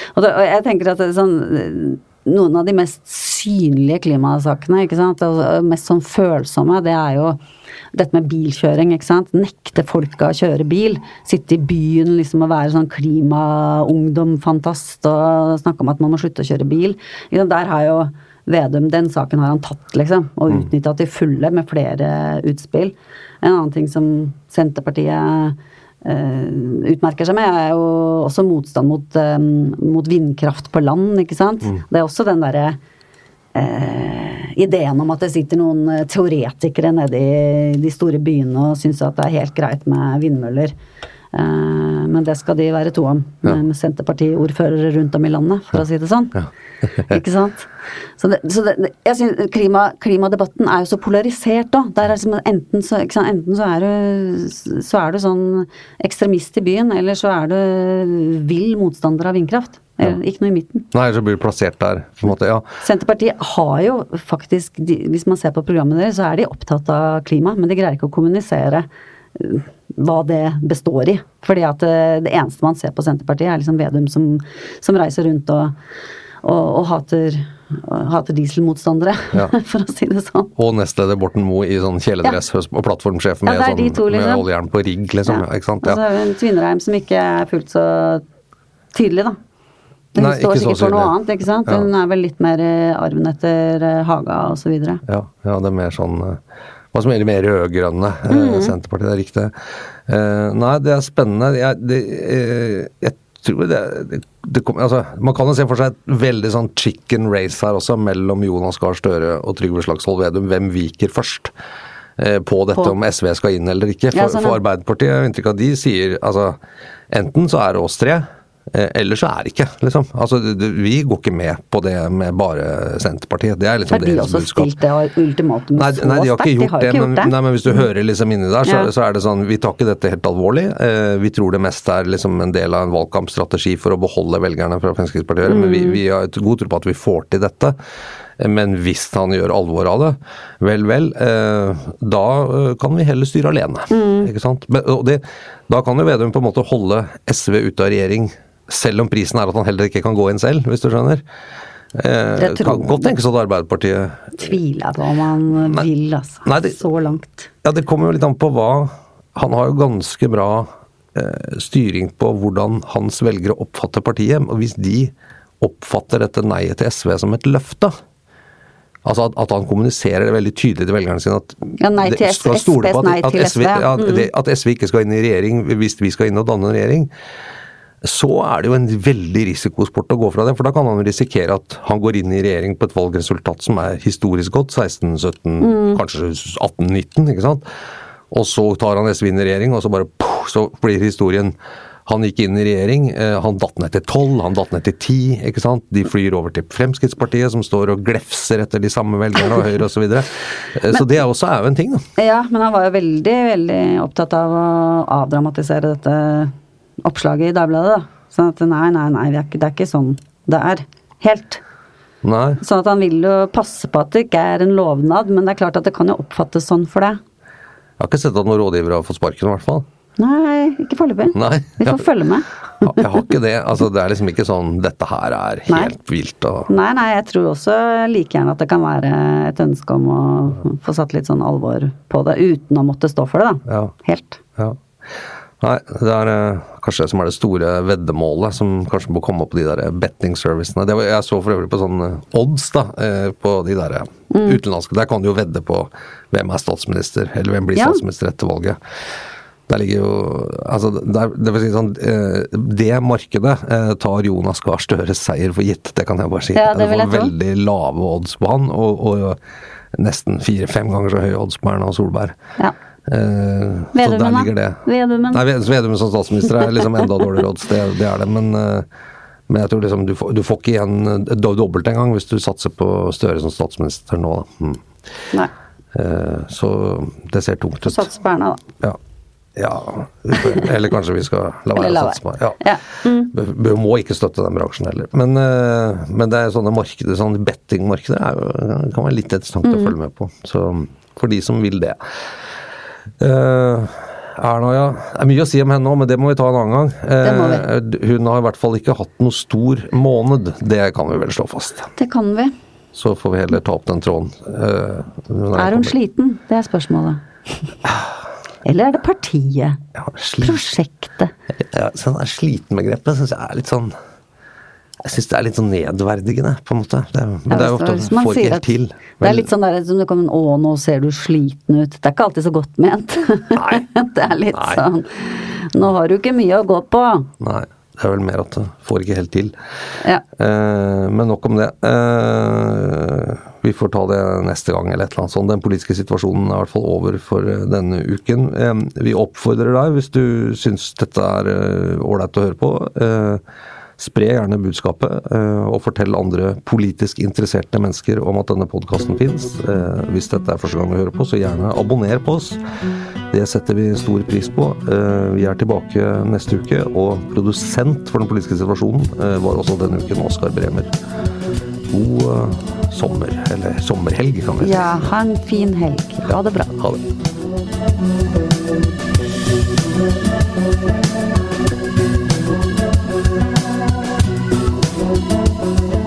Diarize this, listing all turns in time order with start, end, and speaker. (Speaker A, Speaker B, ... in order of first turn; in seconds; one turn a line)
Speaker A: 0.1-7.4
Speaker A: 7.9-32.8
Speaker A: 33.5-40.7
Speaker A: 41.3-46.4
Speaker B: 46.3-47.2
Speaker A: 47.1-60.9
Speaker B: 60.9-62.7
Speaker A: 62.8-75.7
Speaker A: 76.4-80.5
Speaker B: 80.5-86.0
Speaker A: 83.5-84.4
Speaker A: 85.2-88.2
Speaker A: 88.9-89.4
Speaker A: 90.1-95.0
Speaker B: 90.2-91.1
Speaker B: 95.0-96.4
Speaker B: 96.9-99.5
Speaker A: 98.3-98.7
Speaker B: 100.1-111.5
Speaker B: 112.2-116.6
Speaker A: 114.1-114.6
Speaker B: 117.1-124.7
Speaker A: 123.9-127.8
Speaker B: 125.8-137.8
Speaker A: 135.4-136.0
Speaker B: 138.4-151.2
Speaker A: 143.9-144.3
Speaker B: 151.9-154.5
Speaker A: 152.4-153.1
Speaker A: 154.4-157.5
Speaker B: 156.4-156.8
Speaker B: 157.6-167.9
Speaker B: 169.0-177.1
Speaker A: 171.8-174.3
Speaker B: 178.0-187.6
Speaker A: 185.6-186.0
Speaker B: 188.3-191.5
Speaker B: 192.1-202.0
Speaker A: 202.2-206.5
Speaker A: 207.0-211.6
Speaker B: 212.2-212.6
Speaker A: 212.6-217.2
Speaker B: 218.0-219.8
Speaker A: 220.2-223.0
Speaker B: 221.3-222.1
Speaker B: 222.8-226.7
Speaker A: 226.7-234.4
Speaker B: 233.7-233.9
Speaker B: 235.6-248.8
Speaker A: 244.3-244.6
Speaker A: 247.7-248.0
Speaker B: 249.7-259.4
Speaker A: 256.5-257.3
Speaker B: 259.9-262.4
Speaker B: 263.1-268.9
Speaker A: 263.9-265.4
Speaker B: 269.5-274.8
Speaker B: 275.9-278.1
Speaker A: 277.8-278.6
Speaker B: 279.6-282.6
Speaker A: 281.7-283.3
Speaker B: 283.2-292.0
Speaker A: 289.6-289.9
Speaker B: 293.2-301.9
Speaker A: 297.2-297.6
Speaker A: 302.0-302.5
Speaker B: 302.9-305.9
Speaker A: 305.5-307.2
Speaker A: 308.6-309.8
Speaker B: 309.9-310.6
Speaker A: 310.4-311.3
Speaker B: 311.6-313.9
Speaker B: 315.0-319.5
Speaker A: 317.5-327.3
Speaker B: 323.5-323.9
Speaker B: 324.5-324.8
Speaker B: 327.4-329.5
Speaker B: 330.4-343.4
Speaker B: 344.0-352.6
Speaker B: 353.3-360.9
Speaker B: 361.9-365.1
Speaker A: 364.6-366.8
Speaker B: 366.2-367.0